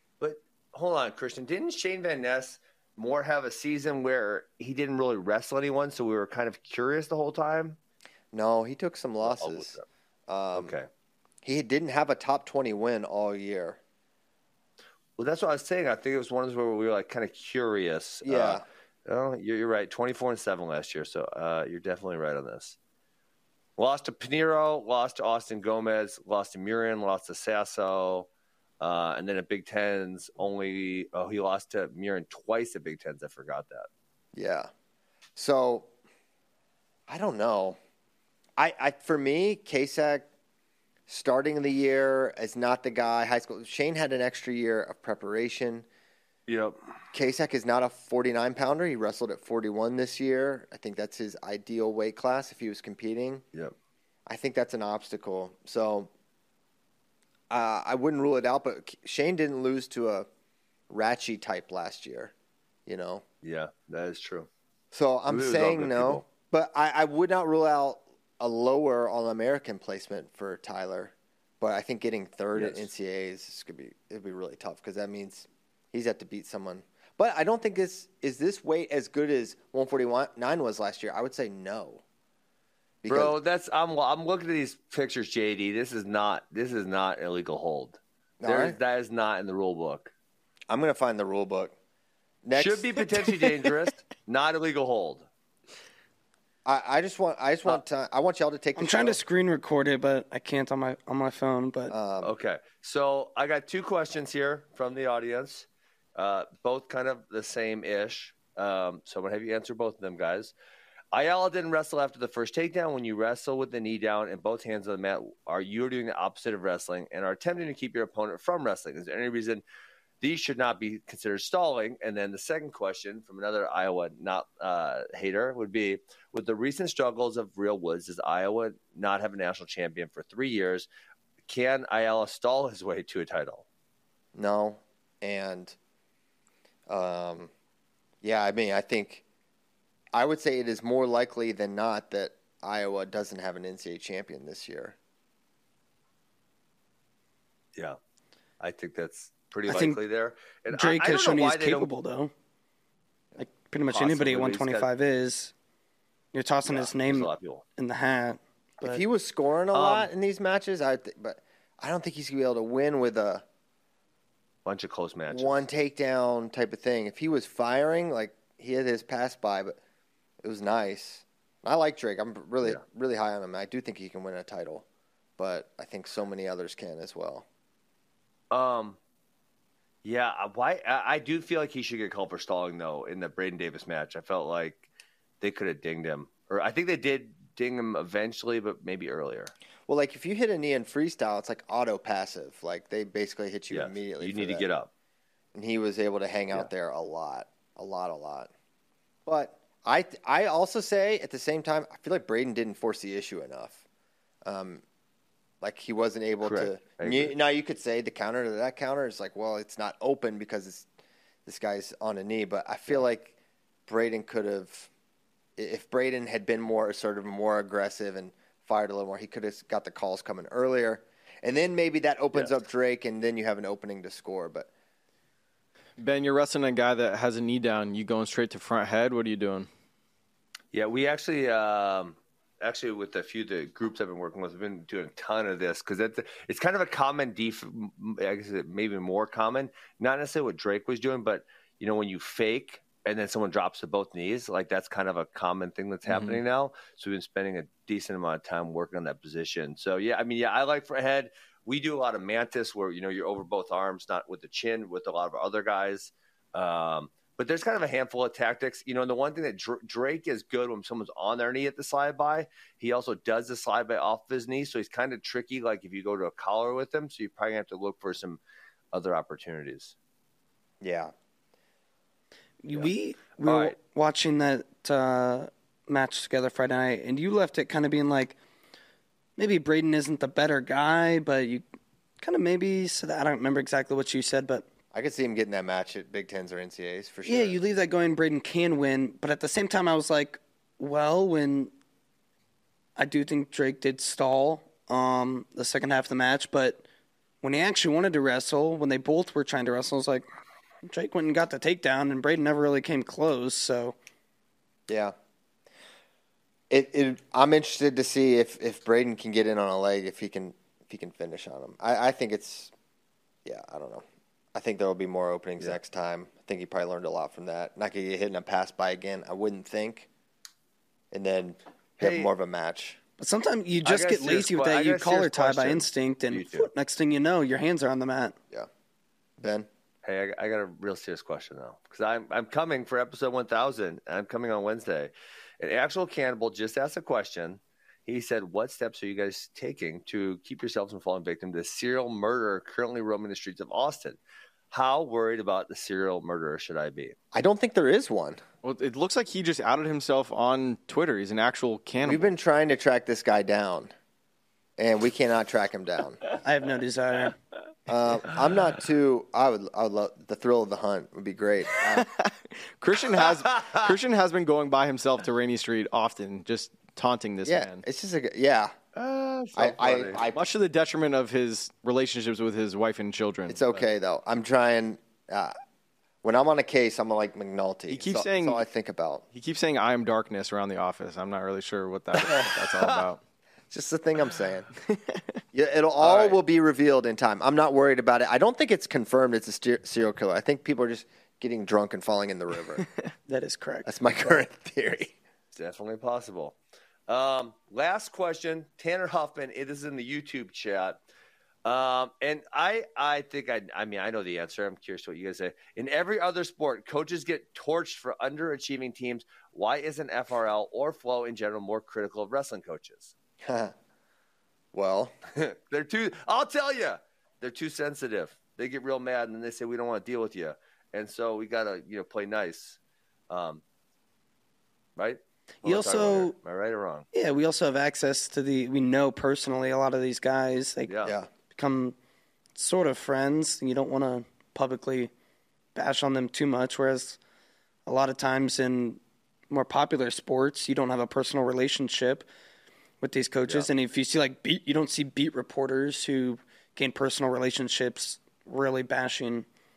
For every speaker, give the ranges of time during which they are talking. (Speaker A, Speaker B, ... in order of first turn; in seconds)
Speaker A: 0.2-7.8, 9.2-9.8, 10.5-10.9, 15.2-22.8, 23.8-28.3, 28.8-33.9, 46.5-46.8, 63.4-64.5, 65.3-66.2, 72.5-72.9, 83.1-90.1, 92.6-95.3, 102.2-110.5, 111.1-119.6, 120.2-130.9, 131.5-133.6, 148.6-151.9, 153.9-154.9, 156.7-157.6, 159.7-160.1, 164.7-165.7, 178.5-179.0, 180.0-184.8, 185.4-189.5, 193.7-194.9, 206.4-207.3, 230.7-268.4, 268.9-269.9, 272.7-273.8, 322.0-322.3, 323.8-326.7, 330.0-344.2, 344.7-347.1, 363.3-363.9, 368.9-370.2, 386.0-386.4, 395.5-396.6, 397.1-401.0, 401.6-413.1, 415.3-422.8, 423.3-423.6, 425.0-427.1, 430.9-431.2
Speaker B: 8.3-9.8, 10.3-10.7, 11.4-13.8, 18.2-18.6, 34.4-34.7, 35.4-35.9, 37.1-37.8, 38.6-40.2, 41.1-45.9, 47.1-53.4, 54.3-56.1, 57.5-60.3, 60.9-62.3, 62.9-63.2, 64.9-82.0, 83.0-83.4, 88.4-88.8, 90.7-91.7, 92.5-93.1, 96.7-99.2, 101.9-102.3, 134.3-135.8, 136.9-137.5, 138.2-139.2, 140.1-144.9, 158.8-163.4, 165.3-169.8, 170.4-174.8, 175.4-177.4, 189.9-194.7, 195.5-198.5, 199.3-203.8, 204.5-204.8, 205.6-210.9, 211.5-213.3, 213.9-214.9, 215.6-224.7, 270.8-271.1, 284.9-287.6, 304.9-305.1, 306.7-312.7, 313.4-320.1, 321.1-323.0, 329.4-329.7, 347.3-348.4, 352.0-353.9, 354.8-356.2, 357.9-362.1, 367.4-368.7, 369.6-370.4, 373.5-375.5, 376.2-379.2, 383.7-384.7, 385.5-392.9, 393.9-395.1, 413.4-413.7, 414.7-415.1, 431.0-431.3
Speaker C: 98.8-102.0, 149.7-150.0, 150.7-152.3, 153.4-155.5, 156.3-159.0, 272.6-278.4, 279.4-281.6, 282.2-284.6, 287.3-291.7, 293.0-296.8, 297.4-300.3, 300.8-303.9, 323.2-328.4, 356.4-357.4, 393.3-393.9, 425.6-426.4, 427.1-431.0, 431.5-431.9, 432.6-435.1, 435.8-437.2, 437.9-442.3, 443.0-449.5
Speaker D: 226.0-229.7, 246.1-246.4, 348.6-352.3, 361.9-367.8, 370.3-373.8, 377.9-378.6, 379.3-383.2, 384.9-385.4, 392.8-393.1